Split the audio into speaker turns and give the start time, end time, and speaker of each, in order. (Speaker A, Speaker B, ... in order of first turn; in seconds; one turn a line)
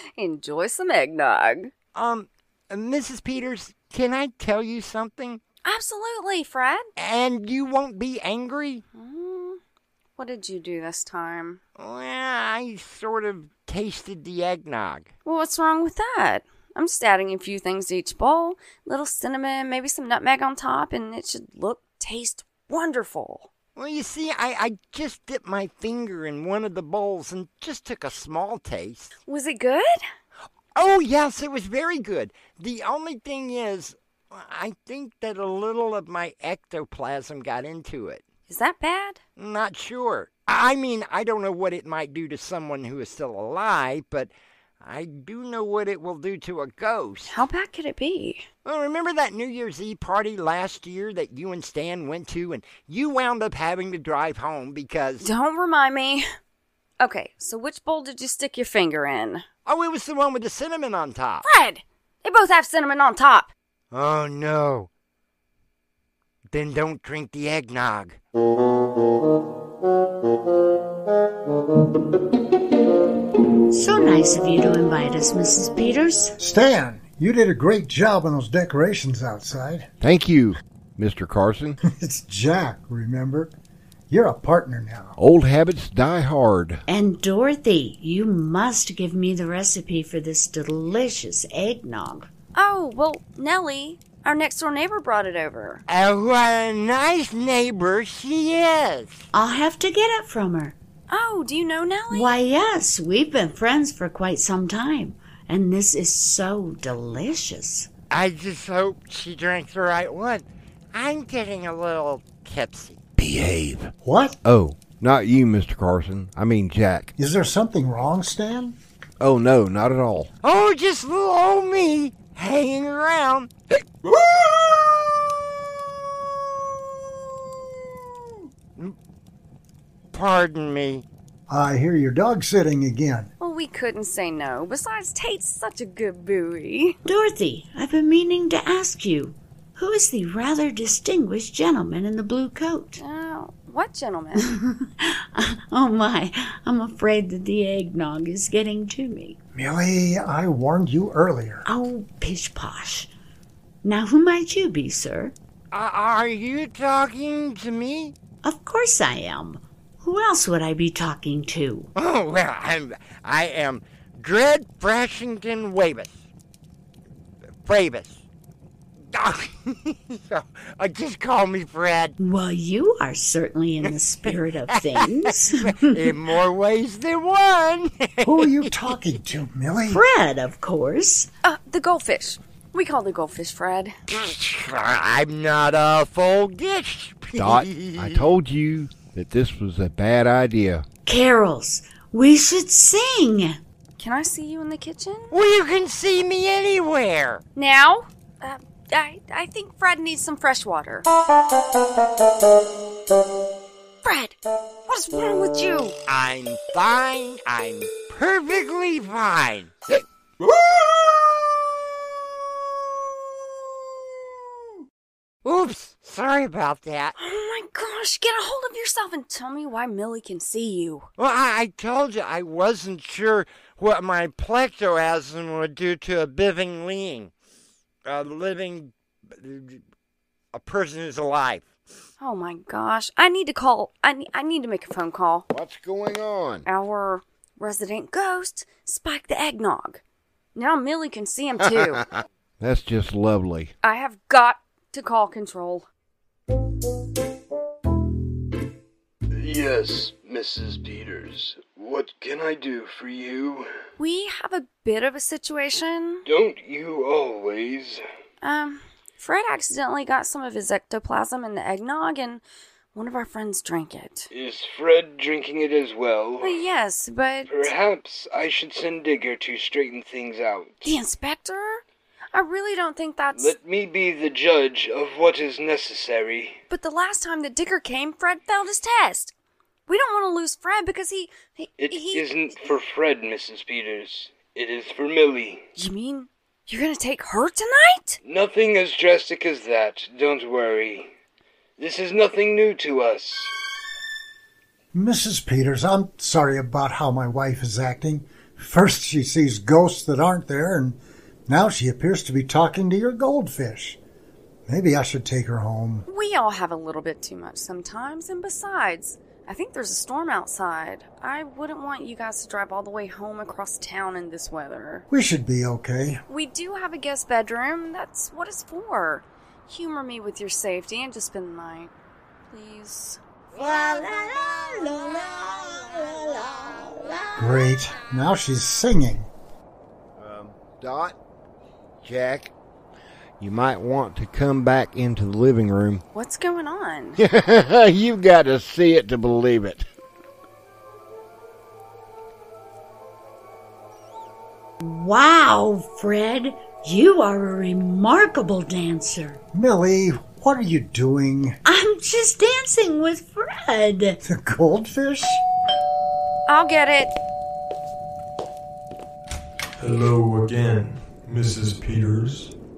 Speaker A: 0.2-1.7
Speaker B: 1.9-5.4
Speaker A: 5.6-6.9
Speaker B: 7.0-8.8
Speaker A: 8.9-9.6
Speaker A: 10.2-11.6
Speaker B: 11.8-15.1
Speaker A: 15.2-23.5
Speaker B: 23.8-29.1
Speaker A: 29.3-29.9
Speaker B: 30.8-38.2
Speaker A: 38.5-39.2
Speaker B: 39.4-47.4
Speaker A: 47.3-48.5
Speaker B: 48.6-55.3
Speaker A: 55.2-56.2
Speaker A: 57.0-59.4
Speaker B: 59.7-61.4
Speaker A: 61.4-63.5
Speaker B: 63.9-64.9
Speaker B: 66.5-68.2
Speaker C: 73.7-76.3
Speaker D: 76.4-79.9
Speaker E: 80.0-81.8
Speaker D: 81.8-83.5
Speaker D: 84.1-85.2
Speaker E: 85.2-86.8
Speaker C: 86.9-92.3
Speaker A: 92.5-95.8
Speaker B: 95.9-99.2
Speaker C: 99.3-100.8
Speaker A: 101.1-102.4
Speaker C: 102.1-107.9
Speaker B: 108.1-113.0
Speaker E: 113.2-113.9
Speaker D: 114.0-114.4
Speaker E: 114.4-117.1
Speaker D: 117.2-118.8
Speaker E: 119.2-120.3
Speaker B: 120.4-124.8
Speaker B: 130.1-131.1
Speaker D: 131.5-133.3
Speaker A: 133.4-137.0
Speaker C: 137.1-143.0
Speaker A: 143.0-144.5
Speaker C: 144.4-149.4
Speaker D: 149.5-151.6
Speaker C: 151.7-153.1
Speaker C: 153.8-155.3
Speaker B: 155.7-158.1
Speaker C: 158.4-161.9
Speaker B: 161.9-166.2
Speaker B: 167.6-168.2
Speaker B: 169.1-172.1
Speaker C: 172.2-176.2
Speaker B: 173.8-178.9
Speaker D: 178.2-180.0
Speaker C: 179.9-181.3
Speaker A: 181.4-183.9
Speaker B: 184.1-188.3
Speaker E: 187.4-190.8
Speaker C: 191.1-193.6
Speaker A: 194.0-195.3
Speaker B: 195.3-197.4
Speaker A: 197.6-201.1
Speaker A: 204.0-204.4
Speaker A: 204.9-206.0
Speaker B: 206.1-209.9
Speaker B: 215.4-217.1
Speaker A: 217.2-221.1
Speaker B: 221.2-227.3
Speaker B: 228.1-229.8
Speaker B: 230.5-231.7
Speaker A: 232.2-235.4
Speaker E: 235.5-236.6
Speaker A: 236.7-240.0
Speaker A: 240.6-242.1
Speaker E: 241.6-241.9
Speaker E: 242.6-243.7
Speaker A: 243.8-245.9
Speaker F: 249.4-253.7
Speaker A: 254.0-256.2
Speaker F: 256.2-258.0
Speaker A: 258.4-262.4
Speaker A: 262.9-264.3
Speaker F: 264.3-266.6
Speaker A: 266.4-267.6
Speaker F: 267.5-270.8
Speaker A: 270.8-271.8
Speaker A: 272.3-273.5
Speaker F: 273.3-276.6
Speaker A: 276.7-279.3
Speaker A: 279.9-282.6
Speaker F: 281.8-285.6
Speaker A: 285.8-288.2
Speaker F: 288.2-291.1
Speaker F: 291.8-293.5
Speaker D: 294.9-301.0
Speaker D: 301.5-304.0
Speaker D: 304.7-306.1
Speaker A: 306.1-315.0
Speaker D: 315.1-316.2
Speaker A: 316.3-321.9
Speaker A: 322.5-323.2
Speaker C: 323.5-327.6
Speaker D: 327.4-329.3
Speaker E: 330.2-331.1
Speaker E: 332.0-332.5
Speaker E: 333.4-336.0
Speaker A: 336.1-337.2
Speaker E: 337.2-339.9
Speaker C: 344.8-349.4
Speaker D: 349.5-351.6
Speaker C: 351.6-354.2
Speaker D: 354.2-355.4
Speaker A: 356.5-357.1
Speaker G: 359.8-362.5